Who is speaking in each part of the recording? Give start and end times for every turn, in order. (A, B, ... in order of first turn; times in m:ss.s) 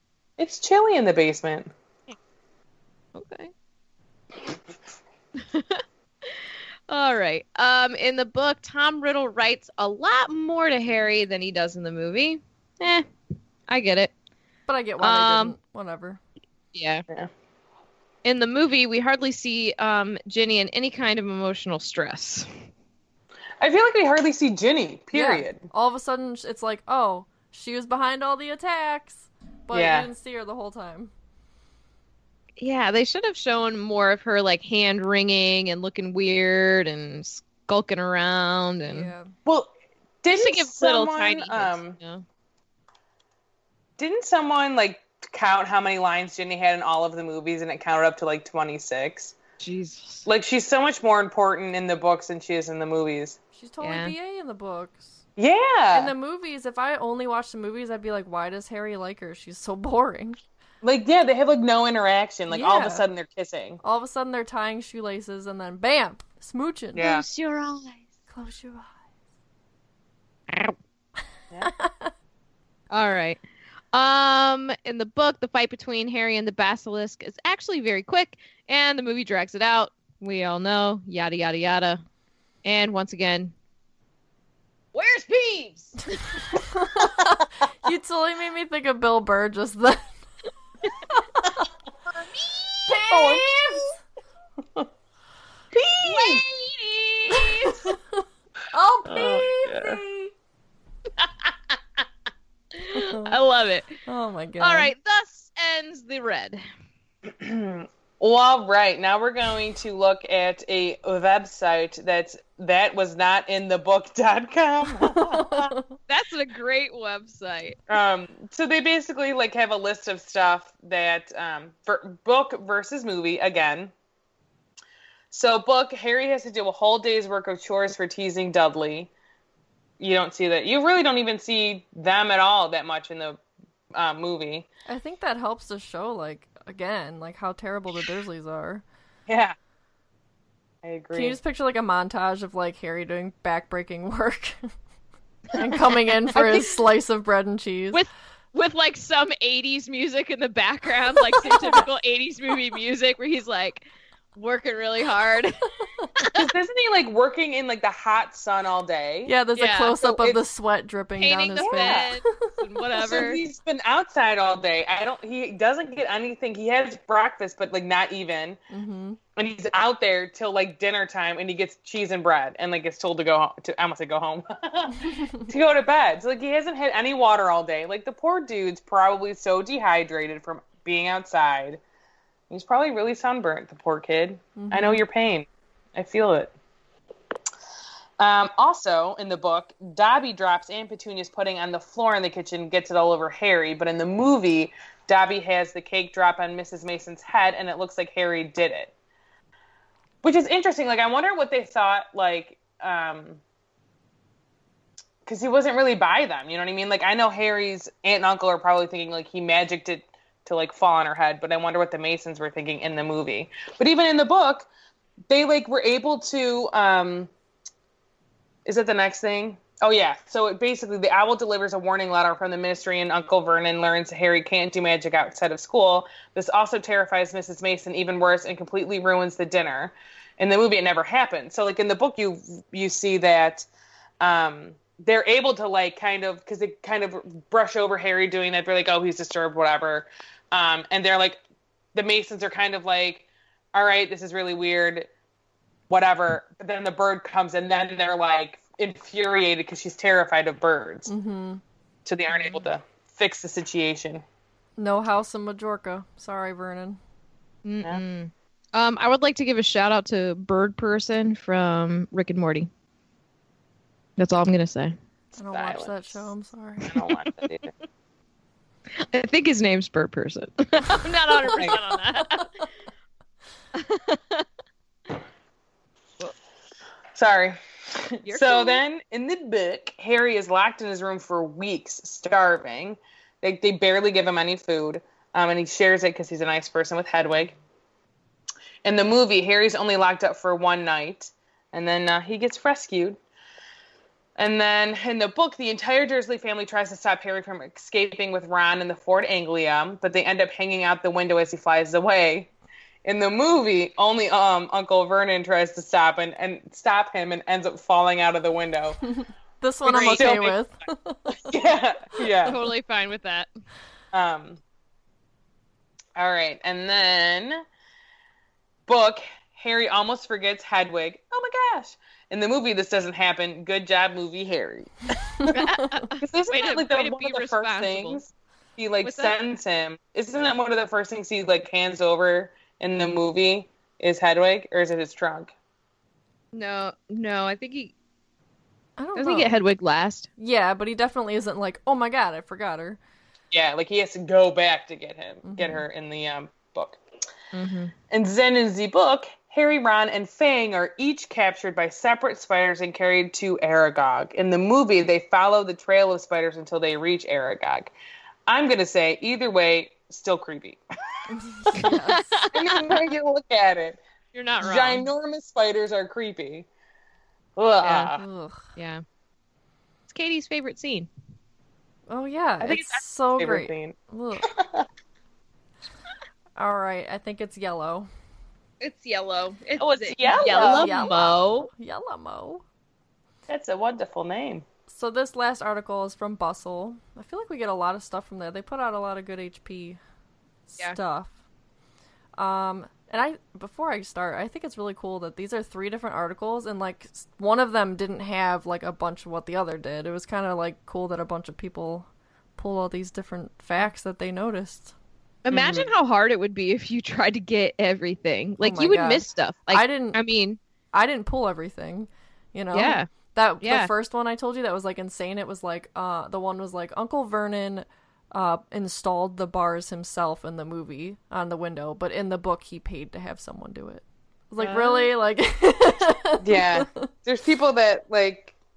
0:00.4-0:01.7 A
0:03.1-0:03.5 B
0:05.4-0:13.0 B
0:13.7-0:14.1 B
0:14.7-0:16.2 C
0:15.0-0:15.6 B
0:16.7-0:17.0 B
0:18.2-0:22.5 B
0:23.6-0:25.6 A
0:25.1-0:31.1 C
0:29.7-0:30.1 A
0:32.6-0:39.1 B
0:38.9-0:39.3 C
0:40.2-0:42.0 A
0:40.3-0:42.2 B
0:44.0-0:49.3 A
0:49.6-0:50.3 B
0:50.2-0:53.4 A
0:53.5-0:55.2 C
0:53.8-0:54.1 B
0:55.4-0:56.1 A
0:55.9-1:00.4 C
1:00.8-1:03.8 A
1:02.5-1:03.0 C
1:03.8-1:07.1 C
1:06.9-1:07.2 A
1:07.0-1:08.0 B
1:08.3-1:08.9 C
1:11.6-1:12.1 C
1:12.9-1:13.4 B
1:13.9-1:22.0 B
1:22.6-1:23.5 B
1:24.9-1:26.4 B
1:26.5-1:30.1 C
1:31.1-1:31.6 C
1:32.3-1:33.0 B
1:32.9-1:33.8 C
1:33.1-1:33.9 A
1:35.8-1:36.4 A
1:36.0-1:37.9 B
1:38.7-1:40.3 C
1:39.0-1:40.0 A
1:42.7-1:44.0 B
1:42.9-1:43.4 C
1:44.0-1:44.9 C
1:44.6-1:46.6 B
1:47.4-1:55.7 A
1:55.0-1:55.8 C
1:56.1-1:57.8 B
1:57.9-2:03.9 A
2:05.3-2:09.1 A
2:10.0-2:13.4 A
2:13.9-2:14.7 A
2:14.9-2:18.8 C
2:19.3-2:19.5 A
2:20.8-2:21.4 A
2:21.1-2:24.6 C
2:25.5-2:28.0 C
2:26.3-2:26.7 A
2:27.9-2:33.8 B
2:34.3-2:35.6 B
2:36.2-2:36.4 B
2:36.3-2:39.3 A
2:39.2-2:42.2 C
2:39.6-2:40.0 B
2:40.0-2:40.4 A
2:41.2-2:43.4 B
2:41.6-2:42.1 A
2:43.0-2:48.6 A
2:48.7-2:49.2 C
2:49.4-3:01.8 A
3:02.5-3:06.5 A
3:04.6-3:05.0 C
3:08.2-3:18.9 A
3:20.2-3:23.4 A
3:25.2-3:34.7 A
3:35.3-3:37.3 A
3:38.6-3:53.7 A
3:54.2-4:01.4 A
4:01.9-4:05.1 A
4:05.9-4:11.1 A
4:11.1-4:11.6 C
4:12.0-4:14.2 A
4:12.3-4:12.7 B
4:14.8-4:17.0 C
4:17.6-4:22.7 B
4:24.2-4:24.9 B
4:25.4-4:27.0 C
4:25.5-4:26.2 A
4:26.9-4:27.7 A
4:27.2-4:27.6 B
4:28.9-4:32.5 B
4:33.7-4:34.4 B
4:37.1-4:47.6 A
4:38.2-4:38.8 B
4:48.8-4:53.2 A
4:54.4-5:02.5 A
5:03.0-5:09.0 A
5:09.2-5:11.5 C
5:09.8-5:10.6 A
5:11.4-5:12.6 A
5:12.4-5:13.5 B
5:14.1-5:14.6 A
5:16.2-5:17.6 A
5:18.9-5:25.6 A
5:25.5-5:28.2 B
5:26.2-5:35.5 A
5:29.0-5:29.3 B
5:36.5-5:37.9 B
5:39.0-5:39.5 C
5:39.1-5:40.3 B
5:40.4-5:43.0 C
5:43.5-5:47.0 A
5:45.4-5:45.8 C
5:47.5-5:47.9 B
5:48.1-5:57.9 A
5:58.5-6:00.8 A
6:01.3-6:02.5 C
6:01.7-6:03.1 B
6:02.5-6:04.0 A
6:04.3-6:05.1 B
6:04.6-6:06.6 A
6:07.6-6:08.2 A
6:07.8-6:08.1 B
6:08.2-6:08.6 C
6:08.8-6:09.0 B
6:10.1-6:11.1 B
6:12.1-6:14.5 C
6:12.6-6:14.8 A
6:16.6-6:18.1 C
6:18.8-6:21.7 B
6:19.8-6:21.1 A
6:20.2-6:22.6 C
6:23.5-6:24.6 A
6:24.9-6:30.0 C
6:30.7-6:31.3 C
6:32.4-6:44.9 C
6:45.4-6:50.6 B
6:45.5-6:45.9 A
6:48.6-6:50.2 C
6:50.9-7:07.1 C
6:52.7-6:53.1 B
6:53.6-6:53.9 B
7:04.6-7:05.1 A
7:06.4-7:08.5 A